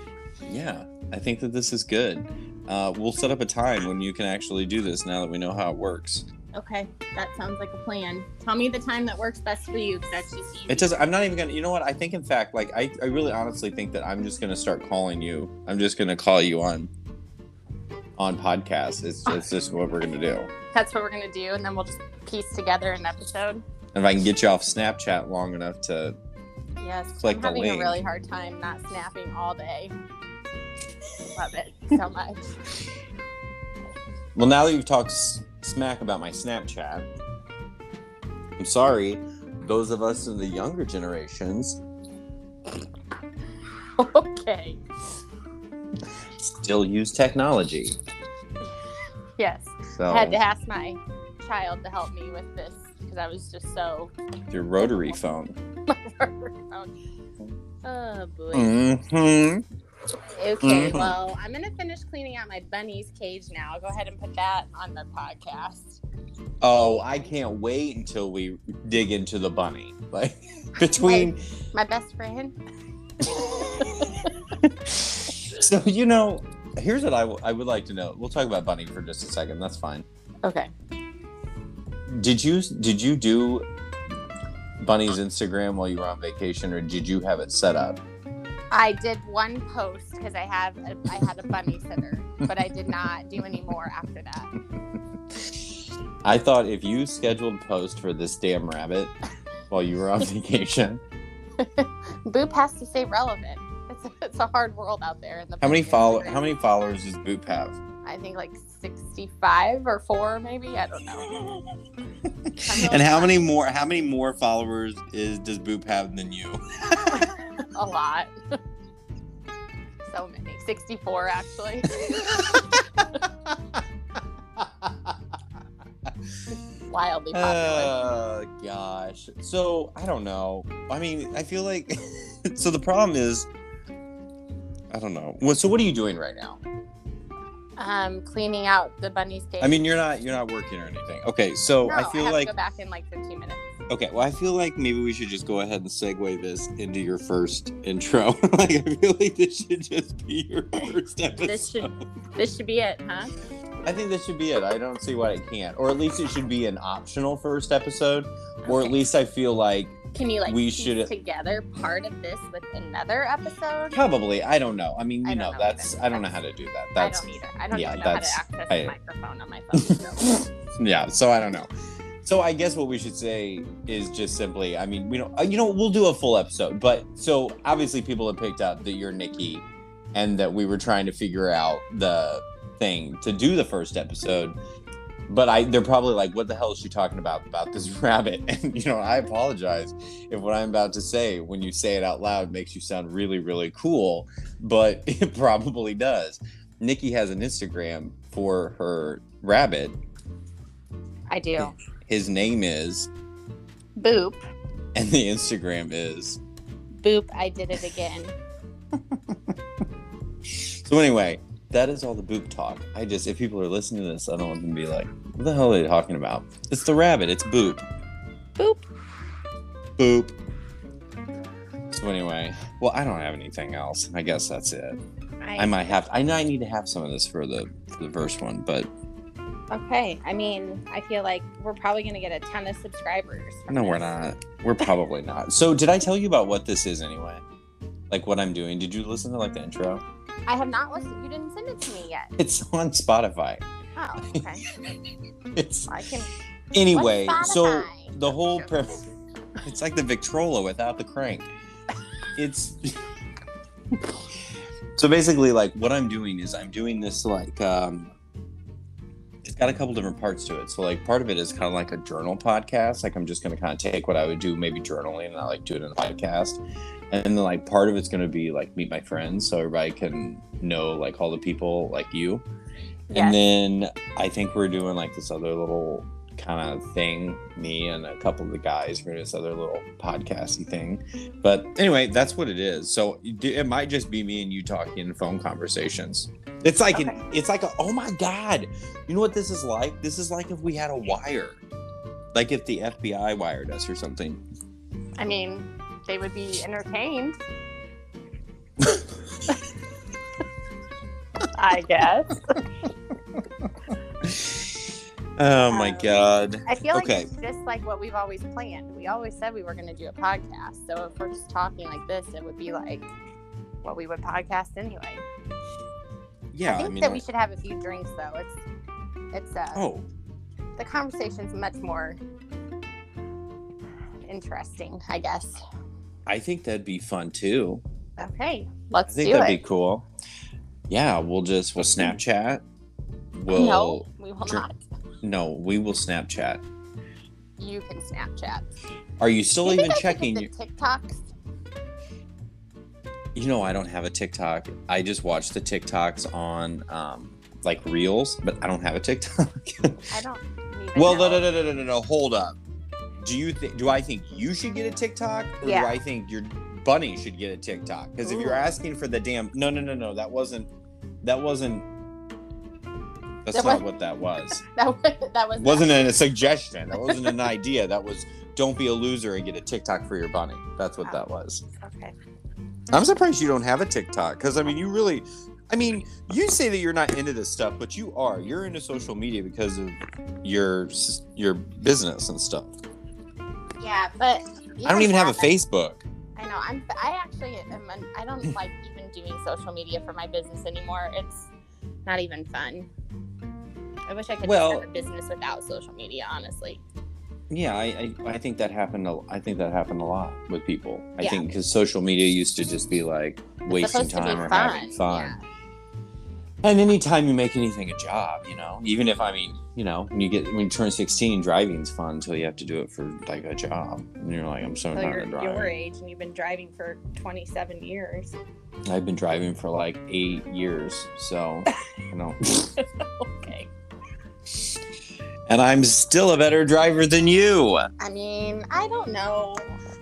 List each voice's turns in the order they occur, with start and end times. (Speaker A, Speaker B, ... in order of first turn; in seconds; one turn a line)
Speaker A: 0.5-6.3
Speaker B: 6.5-11.0
Speaker A: 10.7-16.9
Speaker A: 18.2-20.5
Speaker B: 20.7-23.6
Speaker A: 23.9-26.2
Speaker B: 26.8-29.9
Speaker A: 27.2-28.0
Speaker B: 31.3-32.4
Speaker A: 34.4-37.1
Speaker A: 38.6-41.8
Speaker B: 44.0-44.8
Speaker A: 46.4-48.0
Speaker B: 49.4-54.1
Speaker A: 49.9-50.4
Speaker A: 54.5-55.5
Speaker B: 54.8-55.2
Speaker B: 55.9-56.9
Speaker B: 57.8-58.7
Speaker A: 58.5-59.6
Speaker B: 60.4-66.0
Speaker A: 60.6-61.1
Speaker A: 66.6-71.4
Speaker B: 66.7-67.3
Speaker B: 70.8-72.6
Speaker A: 73.3-80.0
Speaker B: 73.4-74.3
Speaker B: 80.4-80.7
Speaker A: 82.1-83.7
Speaker A: 84.8-88.0
Speaker B: 88.7-94.5
Speaker A: 96.2-99.1
Speaker A: 99.7-101.0
Speaker B: 101.6-106.5
Speaker A: 105.6-107.8
Speaker B: 108.0-111.4
Speaker A: 112.5-117.3
Speaker B: 112.6-113.4
Speaker B: 117.1-118.3
Speaker B: 120.1-123.0
Speaker A: 122.0-122.6
Speaker A: 123.5-123.8
Speaker A: 124.6-125.2
Speaker B: 126.9-128.0
Speaker A: 127.3-133.5
Speaker A: 134.9-136.6
Speaker B: 137.8-139.9
Speaker A: 139.6-142.5
Speaker B: 141.8-143.7
Speaker A: 143.9-152.0
Speaker B: 151.4-153.3
Speaker A: 153.8-161.1
Speaker B: 158.6-159.0
Speaker B: 160.1-164.0
Speaker A: 163.9-168.9
Speaker B: 165.2-166.3
Speaker B: 167.0-170.2
Speaker A: 170.2-171.7
Speaker A: 172.2-184.6
Speaker A: 185.3-200.0
Speaker B: 201.3-201.7
Speaker A: 201.6-203.1
Speaker B: 204.0-204.4
Speaker A: 204.9-206.4
Speaker B: 207.0-208.4
Speaker A: 210.5-217.8
Speaker B: 218.6-218.8
Speaker A: 220.0-220.4
Speaker A: 221.9-225.0
Speaker B: 225.4-226.0
Speaker A: 225.6-228.9
Speaker B: 229.7-234.2
Speaker A: 233.7-237.4
Speaker A: 238.1-240.0
Speaker B: 240.5-242.3
Speaker A: 242.4-243.6
Speaker B: 244.0-244.7
Speaker A: 245.6-245.9
Speaker B: 245.9-246.3
Speaker A: 246.7-249.1
Speaker B: 246.9-248.7
Speaker A: 249.6-251.5
Speaker A: 252.4-253.0
Speaker A: 255.0-258.1
Speaker A: 259.4-272.5
Speaker B: 273.1-273.4
Speaker A: 273.1-291.6
Speaker B: 286.9-287.2
Speaker A: 292.3-294.4
Speaker B: 295.2-297.4
Speaker B: 301.5-302.4
Speaker A: 304.2-304.9
Speaker A: 305.4-307.3
Speaker B: 305.5-306.1
Speaker B: 306.7-313.1
Speaker B: 313.8-315.2
Speaker A: 316.5-317.2
Speaker B: 316.7-318.6
Speaker B: 319.3-319.9
Speaker A: 319.8-320.1
Speaker B: 320.8-322.2
Speaker B: 324.3-325.6
Speaker A: 326.3-327.8
Speaker B: 328.2-329.6
Speaker A: 329.1-330.1
Speaker A: 330.9-332.6
Speaker A: 333.4-334.7
Speaker B: 333.5-334.8
Speaker A: 335.2-336.6
Speaker B: 337.6-338.7
Speaker A: 339.2-340.5
Speaker B: 339.6-341.2
Speaker A: 343.4-349.9
Speaker B: 350.1-351.5
Speaker A: 351.0-352.6
Speaker A: 353.2-360.7
Speaker B: 355.6-356.0
Speaker B: 358.2-358.7
Speaker A: 361.2-361.9
Speaker A: 363.4-364.6
Speaker B: 363.5-363.8
Speaker B: 364.8-366.0
Speaker A: 365.6-371.6
Speaker B: 367.0-367.4
Speaker B: 371.8-372.1
Speaker A: 372.9-382.7
Speaker B: 383.8-385.5
Speaker A: 384.9-386.0
Speaker B: 386.4-391.5
Speaker B: 392.1-392.9
Speaker B: 394.1-396.8
Speaker A: 394.4-394.9
Speaker A: 397.5-405.4
Speaker B: 403.7-405.4
Speaker A: 406.6-415.7
Speaker B: 414.9-418.4
Speaker A: 418.9-422.5
Speaker B: 422.8-423.7
Speaker A: 425.5-427.9
Speaker B: 428.0-429.7